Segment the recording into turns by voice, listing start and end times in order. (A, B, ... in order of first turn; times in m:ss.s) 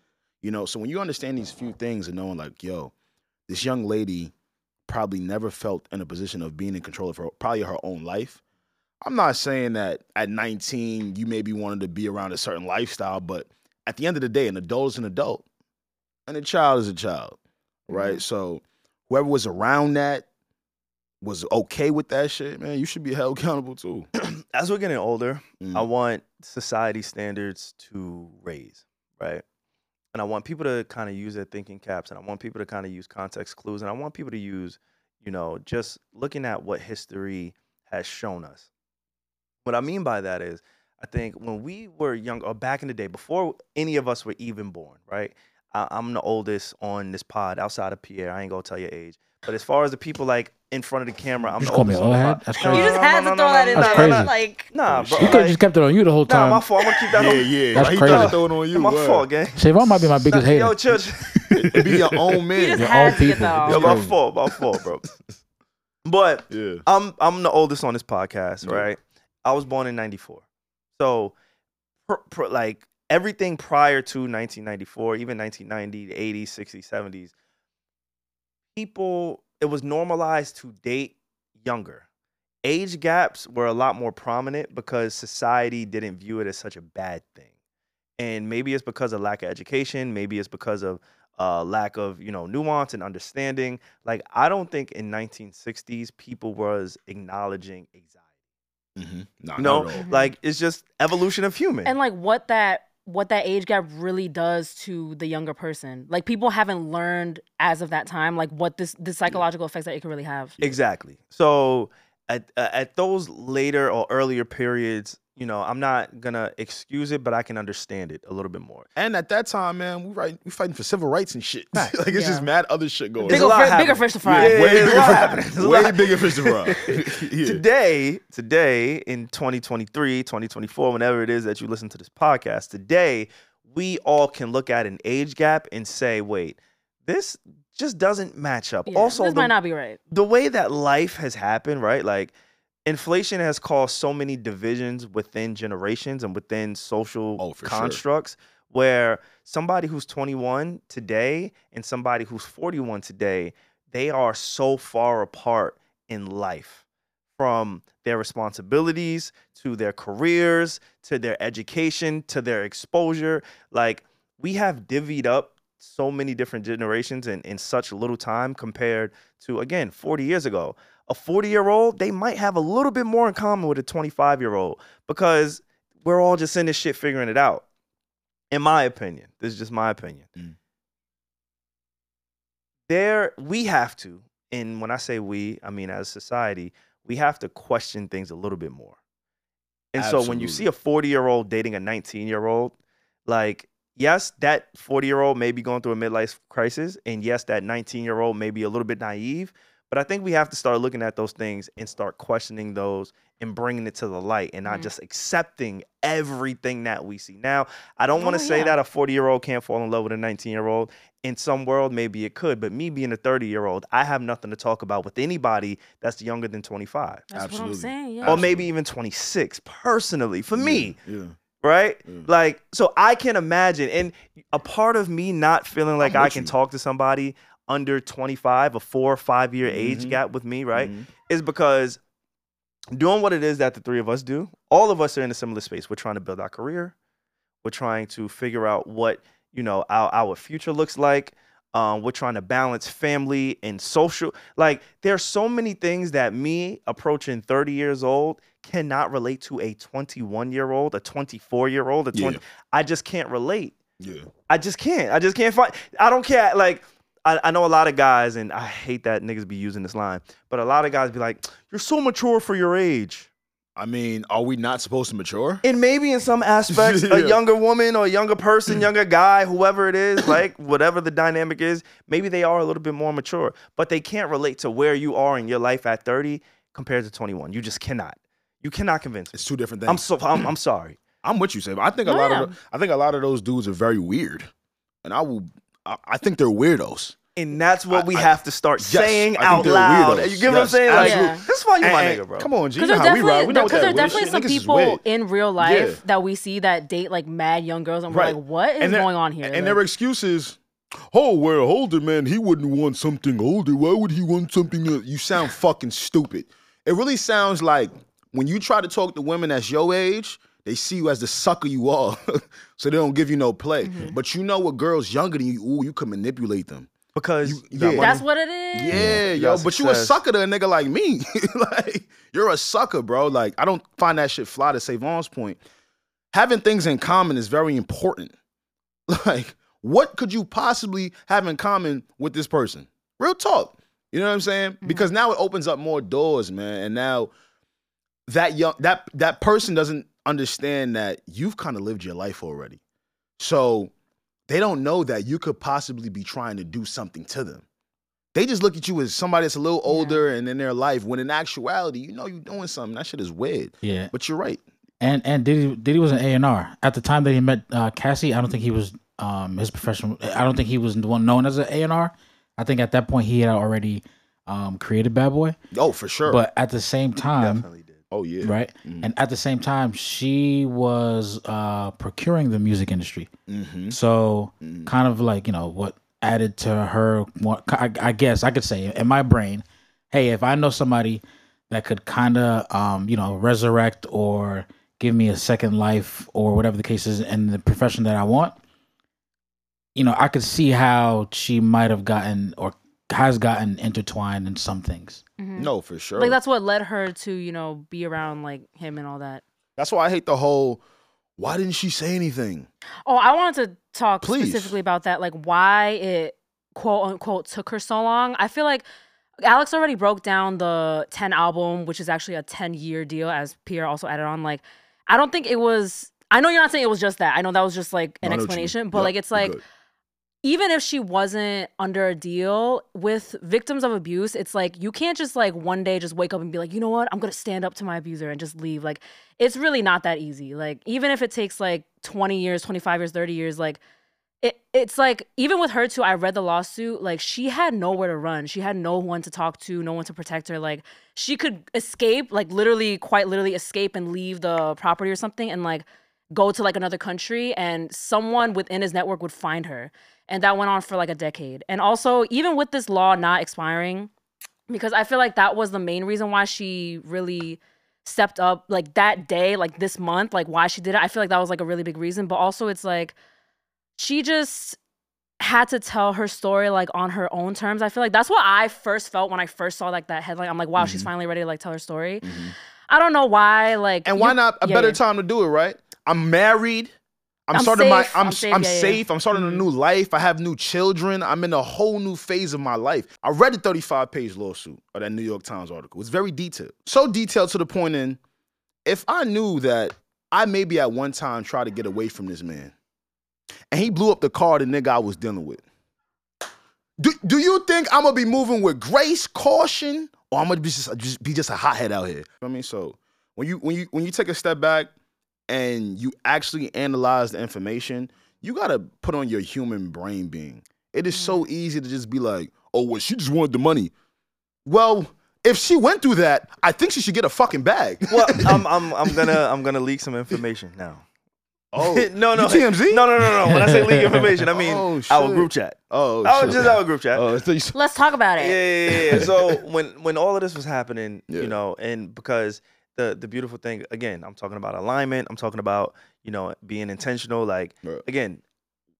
0:00.4-0:02.9 A
0:03.5-0:04.3 A
0:04.9-0:08.4 A
0:09.0-0:15.4 A
0:16.3-0:17.4 A
0:17.9-0:20.3 A
0:17.9-0:18.2 B
0:21.2-0:24.1 A
0:24.2-0:29.4 C
0:25.6-0:25.9 A
0:30.1-0:38.7 C
0:39.6-0:55.6 C
0:51.6-0:52.9 D
0:52.6-0:54.7 B
0:53.7-0:54.3 D
0:54.9-0:55.4 A
0:55.1-0:56.6 D
0:56.3-1:02.1 C
0:57.1-0:59.2 A
0:57.7-0:58.4 D
0:59.6-1:00.8 D
1:01.6-1:04.0 A
1:02.6-1:04.0 B
1:02.8-1:04.2 D
1:03.6-1:05.0 C
1:06.0-1:10.4 C
1:06.5-1:06.8 A
1:08.6-1:08.9 A
1:11.0-1:11.3 C
1:12.1-1:17.3 C
1:18.8-1:22.0 C
1:22.6-1:27.5 C
1:28.2-1:38.1 C
1:39.0-1:40.0 A
1:39.6-1:41.9 C
1:40.0-1:40.3 B
1:41.8-1:50.6 B
1:50.6-1:58.9 C
1:59.0-2:03.5 A
2:02.1-2:02.5 B
2:03.2-2:05.3 B
2:03.3-2:19.5 C
2:04.2-2:07.6 A
2:18.9-2:20.0 B
2:20.1-2:22.3 C
2:22.9-2:36.8 C
2:27.4-2:28.0 A
2:37.4-2:57.6 C
2:58.5-3:00.3 C
3:02.9-3:08.9 C
3:09.9-3:12.7 C
3:10.0-3:10.7 A
3:13.3-3:37.2 C
3:24.6-3:24.9 B
3:28.2-3:28.8 B
3:37.3-3:38.4 B
3:37.3-3:38.7 A
3:38.2-3:41.0 C
3:40.6-3:41.4 A
3:41.6-3:52.0 C
3:46.0-3:46.5 A
3:49.6-3:50.2 A
3:50.7-3:51.1 A
3:52.9-3:56.9 C
3:57.6-4:13.8 C
4:12.1-4:12.4 A
4:14.0-4:14.3 A
4:14.5-4:23.3 C
4:23.8-4:25.6 A
4:25.6-4:41.0 C
4:26.7-4:27.4 A
4:39.3-4:40.5 A
4:41.2-4:44.5 A
4:42.0-4:42.5 B
4:45.0-4:47.2 A
4:47.4-4:52.5 C
4:47.9-4:55.0 A
4:50.9-4:51.4 B
4:52.8-4:59.8 B
4:53.6-4:54.2 C
4:55.6-4:56.0 A
4:58.1-5:00.6 A
5:01.1-5:16.9 A
5:13.8-5:14.2 B
5:17.2-5:18.2 C
5:17.4-5:18.2 A
5:18.0-5:19.0 B
5:18.7-5:25.6 A
5:18.9-5:19.2 D
5:19.1-5:20.2 C
5:26.3-5:28.3 A
5:29.1-5:37.3 A
5:38.3-5:42.8 A
5:43.4-5:43.9 A
5:44.5-5:47.6 A
5:48.4-5:54.6 A
5:49.9-5:50.2 B
5:53.8-5:54.1 D
5:55.0-6:05.6 D
6:05.7-6:06.4 A
6:06.2-6:07.6 D
6:07.4-6:08.0 C
6:08.1-6:09.1 A
6:08.4-6:13.3 D
6:13.5-6:14.0 A
6:13.9-6:28.5 D
6:14.6-6:14.9 A
6:29.9-6:35.2 D
6:35.4-6:39.4 B
6:35.6-6:36.4 A
6:39.8-6:40.8 A
6:41.4-6:42.7 A
6:43.1-6:48.8 B
6:44.2-6:44.7 A
6:49.4-6:59.6 B
6:58.2-6:59.6 A
7:00.4-7:13.8 B
7:14.4-7:34.1 B
7:34.7-7:43.1 B
7:44.0-7:44.8 B
7:45.4-7:55.0 B
7:50.8-7:51.1 A
7:52.2-7:52.5 A
7:54.0-7:56.9 A
7:57.5-8:08.2 A
7:57.5-7:59.6 B
8:08.9-8:12.7 A
8:13.7-8:15.6 A
8:17.0-8:24.9 A
8:25.5-8:33.9 A
8:31.1-8:31.4 B
8:34.6-8:39.4 A
8:38.1-8:41.0 C
8:41.7-8:43.1 A
8:41.8-8:47.2 C
8:43.4-8:44.2 D
8:44.5-8:47.8 A
8:47.7-8:48.6 B
8:48.4-8:58.4 C
8:48.9-8:49.6 A
8:51.3-8:51.5 A